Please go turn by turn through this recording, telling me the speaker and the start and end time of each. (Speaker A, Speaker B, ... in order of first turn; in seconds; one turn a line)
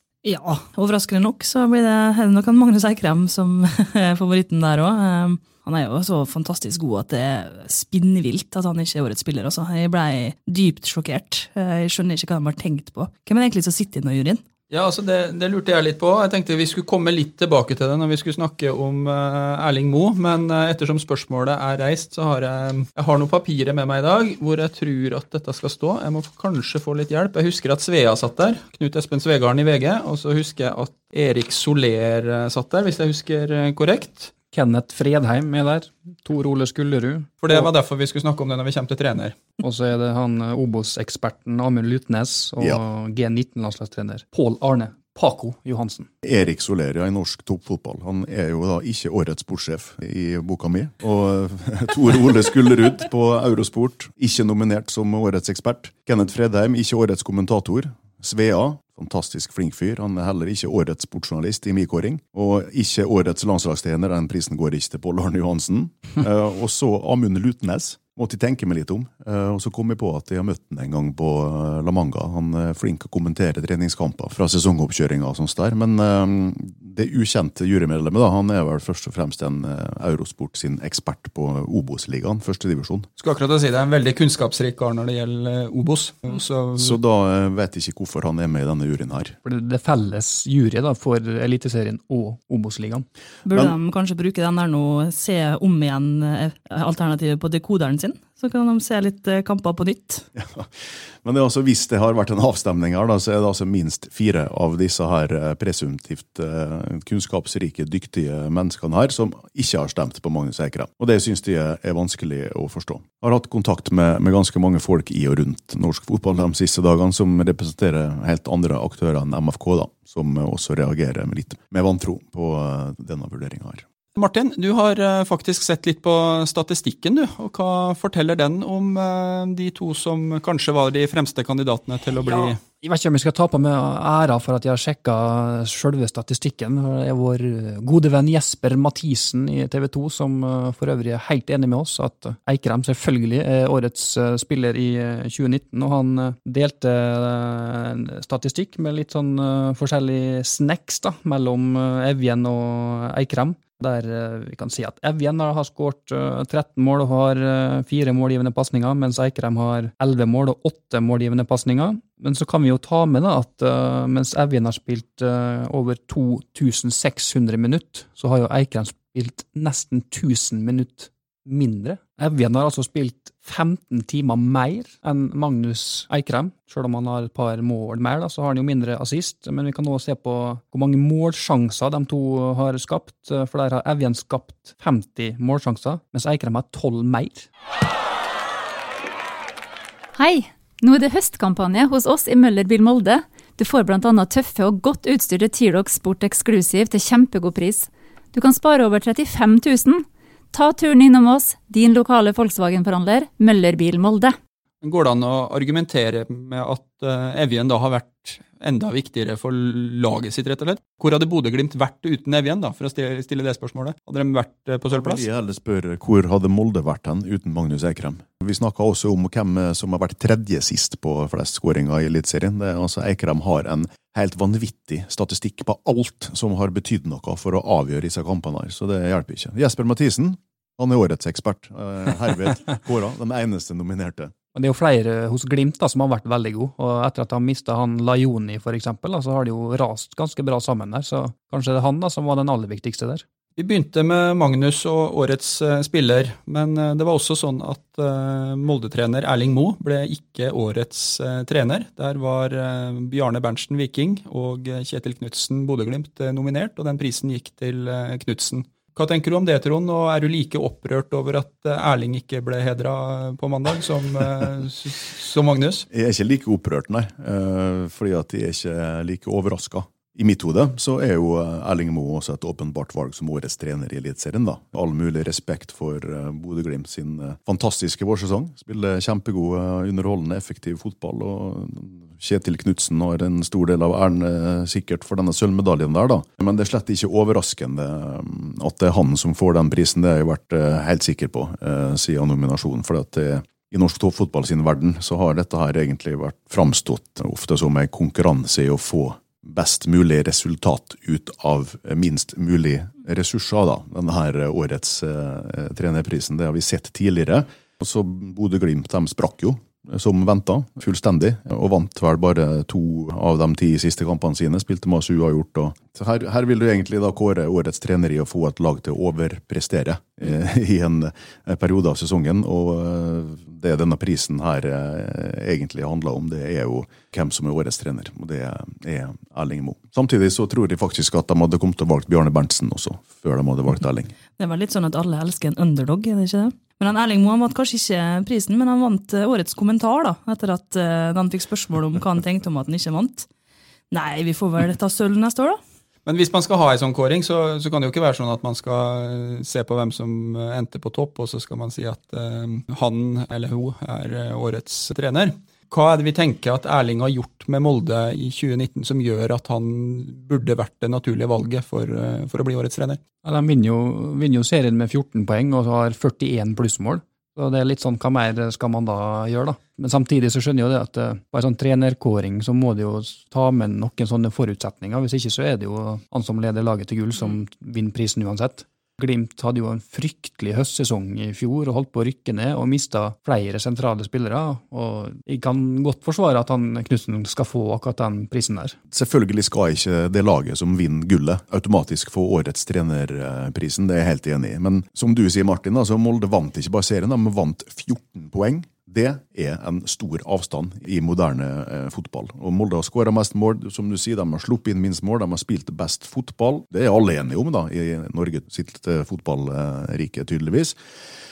Speaker A: 0.2-14.4
Speaker B: 14.7-34.3
Speaker C: 34.5-37.7
Speaker B: 37.4-39.4
Speaker C: 39.6-46.1
Speaker D: 46.2-83.1
Speaker B: 83.2-87.0
Speaker D: 86.8-89.3
Speaker C: 89.4-93.0
Speaker A: 93.5-100.2
Speaker D: 93.5-93.7
Speaker D: 100.3-123.8
Speaker B: 124.2-132.6
Speaker C: 132.2-187.5
Speaker E: 190.2-204.3
Speaker B: 204.8-215.2
Speaker D: 214.9-234.3
Speaker C: 234.5-243.2
Speaker B: 243.6-265.9
Speaker D: 265.9-334.1
Speaker A: 334.4-343.3
Speaker A: 343.9-345.6
Speaker B: 346.1-363.0
Speaker C: 363.2-388.7
Speaker D: 388.9-410.8